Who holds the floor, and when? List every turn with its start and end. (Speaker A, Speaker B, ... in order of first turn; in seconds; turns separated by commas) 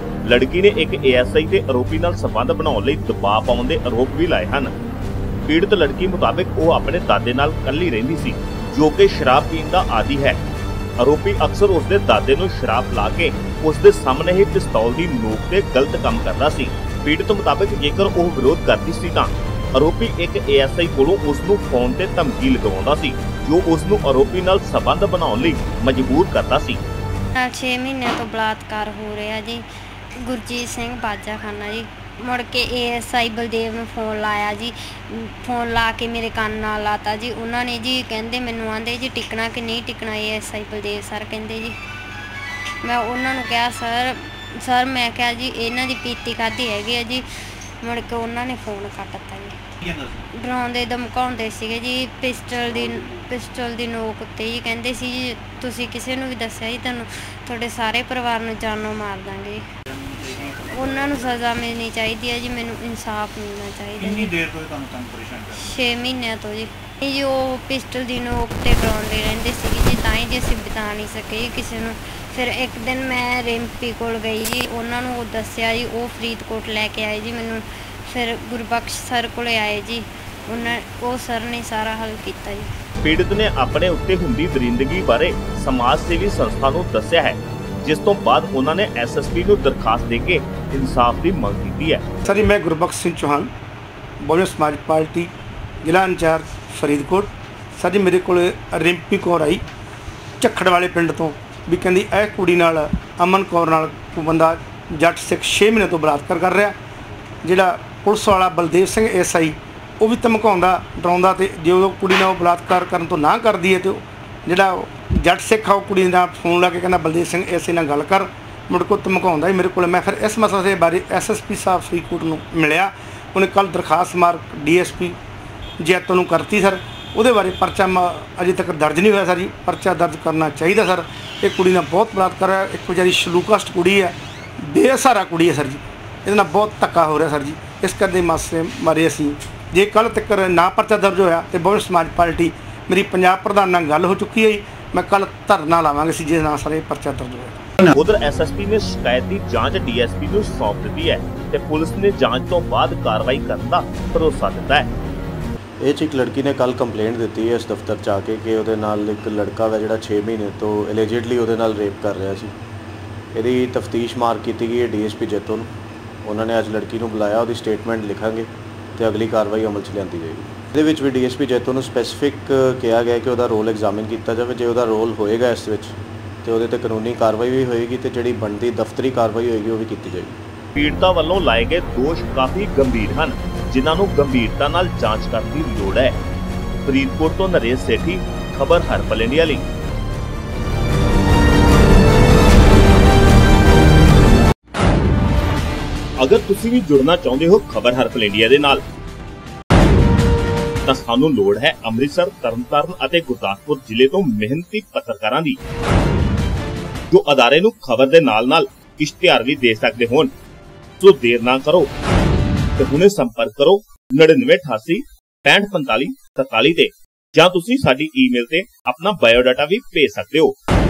Speaker A: 0.2-4.7, Speaker A: 5.5-10.4, Speaker A: 11.0-26.8, Speaker B: 27.4-29.6, Speaker B: 30.2-41.8, Speaker B: 42.8-47.3, Speaker B: 47.8-49.6, Speaker C: 49.9-50.2, Speaker B: 50.3-59.6, Speaker C: 52.9-53.2, Speaker C: 59.9-61.2, Speaker B: 60.4-64.3, Speaker C: 64.0-65.7, Speaker B: 65.5-82.7, Speaker A: 83.0-92.0, Speaker D: 92.2-93.5, Speaker D: 94.2-95.3, Speaker D: 95.8-99.7, Speaker D: 100.4-106.8, Speaker D: 107.4-125.2, Speaker D: 125.8-147.7, Speaker A: 147.8-154.9, Speaker E: 155.8-162.5, Speaker E: 163.3-165.7, Speaker E: 166.2-180.4, Speaker A: 180.8-186.2, Speaker A: 186.8-189.7, Speaker A: 196.2-198.8, Speaker A: 200.9-205.6, Speaker A: 207.1-210.3, Speaker A: 211.0-211.9, Speaker A: 212.8-220.6